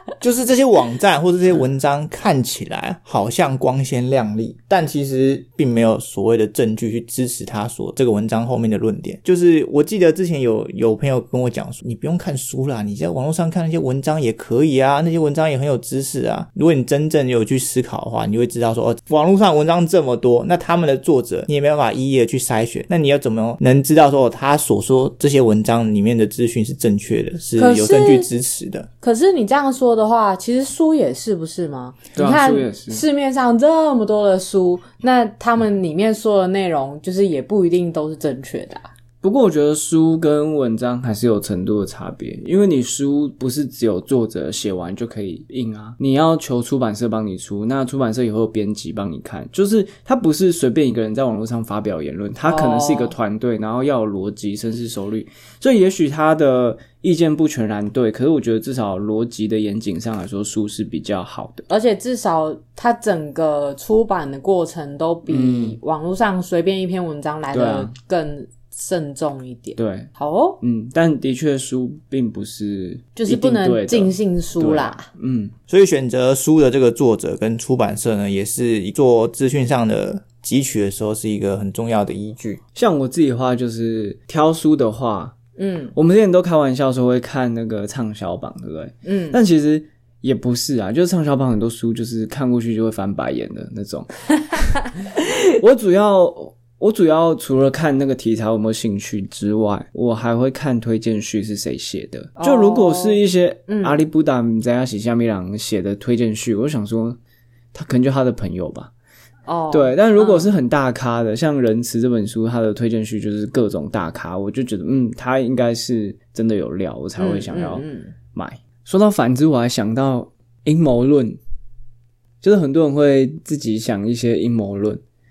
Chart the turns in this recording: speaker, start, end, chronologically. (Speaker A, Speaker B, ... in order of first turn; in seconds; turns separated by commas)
Speaker A: 0.2-28.9, Speaker B: 27.6-28.3, Speaker B: 29.0-38.9, Speaker C: 32.1-33.0, Speaker C: 39.2-61.7, Speaker B: 52.5-53.2, Speaker B: 61.7-70.6, Speaker C: 65.3-65.8, Speaker C: 67.5-68.0, Speaker C: 69.8-70.1, Speaker C: 70.6-75.5, Speaker B: 73.2-75.1, Speaker A: 75.7-82.6, Speaker C: 82.8-85.3, Speaker B: 85.6-85.9, Speaker C: 86.0-94.7, Speaker B: 89.0-89.4, Speaker C: 95.5-107.2, Speaker B: 102.4-104.0, Speaker C: 107.7-108.9, Speaker B: 109.5-110.5, Speaker C: 109.7-121.4, Speaker B: 117.2-118.2, Speaker C: 122.4-125.0